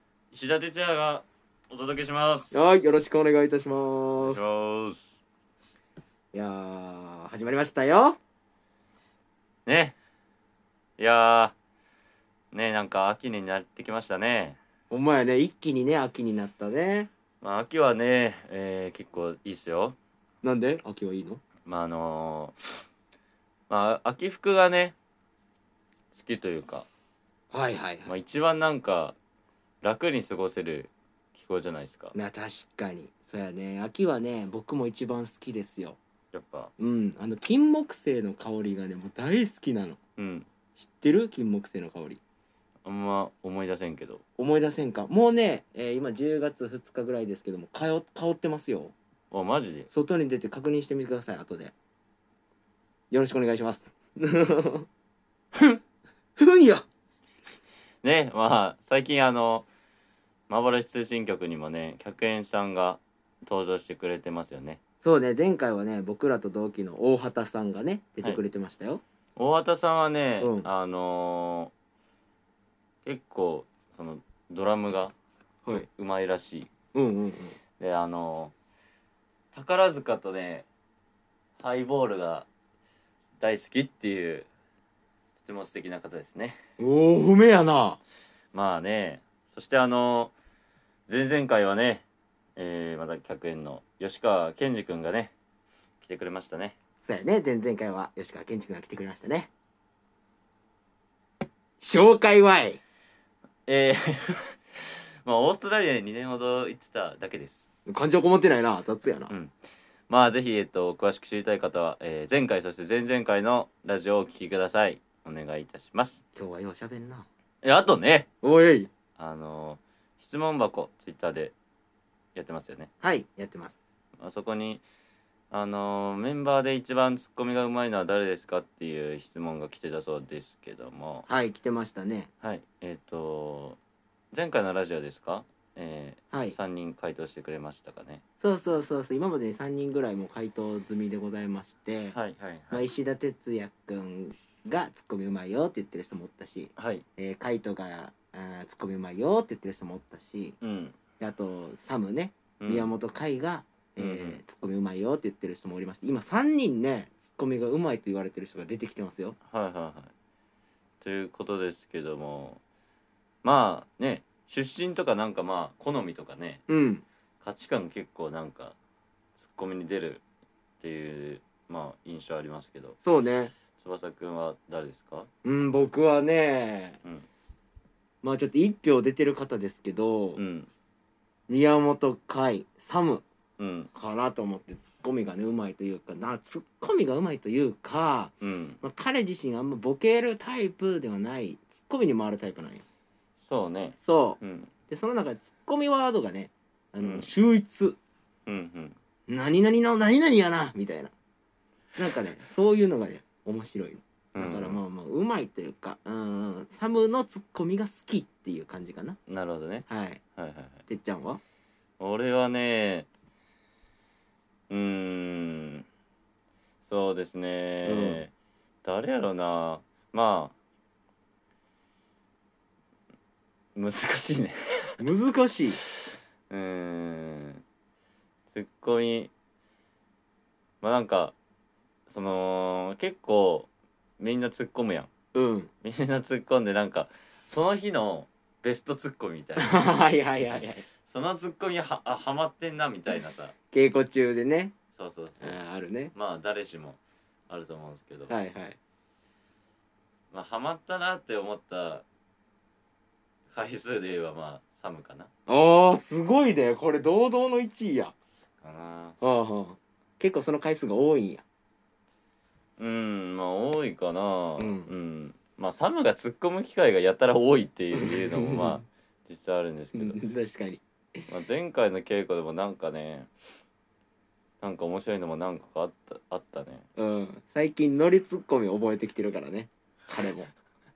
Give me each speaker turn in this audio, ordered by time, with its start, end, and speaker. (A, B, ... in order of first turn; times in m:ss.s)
0:00.3-0:02.6 A
0:02.5-0:04.4 B
0:04.2-0:05.2 A
0:06.3-0:08.2 B
0:09.7-0:10.0 A
0:11.0-0:11.6 A
0:12.5-0:14.6 A
0:14.9-0:17.1 B
0:17.4-0:20.0 A
0:20.4-0:21.4 B
0:21.6-0:22.6 A
0:23.7-0:25.0 A
0:26.1-0:26.9 A
0:27.5-0:28.1 B
0:28.1-0:29.2 A
0:29.8-0:32.1 A
0:32.1-0:36.0 B
0:36.3-0:36.7 A
0:36.8-0:40.0 B
0:40.2-0:40.5 A
0:40.8-0:42.2 B
0:42.8-0:44.2 A
0:44.4-0:48.9 B
0:49.3-0:49.9 A
0:49.9-0:51.7 B
0:53.1-0:54.9 B
0:56.4-0:56.9 B
0:58.0-0:59.7 A
1:00.5-1:04.8 A
1:05.0-1:09.0 B
1:09.4-1:11.7 A
1:10.4-1:10.7 B
1:13.0-1:15.1 A
1:15.7-1:16.7 A
1:16.9-1:17.6 B
1:17.8-1:18.5 A
1:19.5-1:20.7 A
1:21.6-1:22.5 A
1:23.4-1:24.5 A
1:25.4-1:26.6 A
1:26.8-1:28.0 B
1:28.5-1:30.3 A
1:31.1-1:32.0 A
1:32.6-1:35.3 A
1:36.0-1:36.8 A
1:37.0-1:39.5 B
1:41.8-1:42.8 B
1:43.7-1:47.7 A
1:47.9-1:49.3 B
1:49.3-1:49.6 A
1:50.1-1:56.2 A
1:56.4-1:57.3 B
1:57.6-1:58.3 A
1:58.4-1:58.9 B
1:59.2-2:01.5 A
2:02.4-2:02.9 A
2:03.0-2:03.8 B
2:04.2-2:04.8 A
2:05.5-2:11.3 A
2:11.3-2:12.3 B
2:12.4-2:13.8 A
2:14.3-2:18.2 A
2:18.4-2:22.2 B
2:22.1-2:22.9 A
2:22.7-2:30.6 B
2:26.8-2:27.0 A
2:30.6-2:31.0 A
2:31.2-2:39.4 B
2:32.6-2:32.9 A
2:34.0-2:34.4 A
2:39.4-2:40.1 A
2:41.0-2:42.6 A
2:43.4-2:46.6 A
2:46.7-2:47.0 B
2:47.4-2:48.8 A
2:49.4-2:50.2 A
2:50.8-2:53.0 A
2:53.0-2:53.5 B
2:53.8-2:55.3 A
2:55.4-2:57.0 B
2:58.2-3:00.4 B
3:00.4-3:00.7 A
3:01.5-3:03.2 B
3:03.6-3:03.9 A
3:03.9-3:12.8 B
3:08.4-3:08.8 A
3:13.5-3:14.7 A
3:14.0-3:18.0 B
3:17.0-3:17.3 A
3:18.5-3:19.0 A
3:19.3-3:21.1 B
3:22.0-3:29.2 B
3:24.4-3:24.8 A
3:29.3-3:30.8 A
3:29.9-3:30.2 B
3:30.9-3:31.4 B
3:32.0-3:33.1 A
3:34.7-3:35.9 A
3:36.8-3:38.3 A
3:37.8-3:38.2 B
3:38.8-3:40.5 A
3:43.8-3:45.0 A
3:45.0-3:45.8 B
3:45.9-3:47.6 A
3:48.5-3:49.3 A
3:50.8-3:51.3 A
3:52.1-3:55.1 A
3:55.4-3:55.7 B
3:55.8-3:59.8 A
3:59.6-4:00.8 B
4:01.1-4:03.5 A
4:03.7-4:04.8 B
4:04.9-4:05.6 A
4:05.4-4:06.1 B
4:06.1-4:08.3 A
4:08.3-4:08.8 B
4:10.3-4:12.0 A
4:13.5-4:15.3 A
4:15.5-4:18.1 B
4:18.6-4:19.2 A
4:19.2-4:21.4 B
4:22.8-4:30.2 A
4:24.6-4:24.9 B
4:27.9-4:28.8 B
4:29.9-4:31.2 B
4:31.3-4:33.3 A
4:34.6-4:36.9 A
4:37.0-4:40.5 B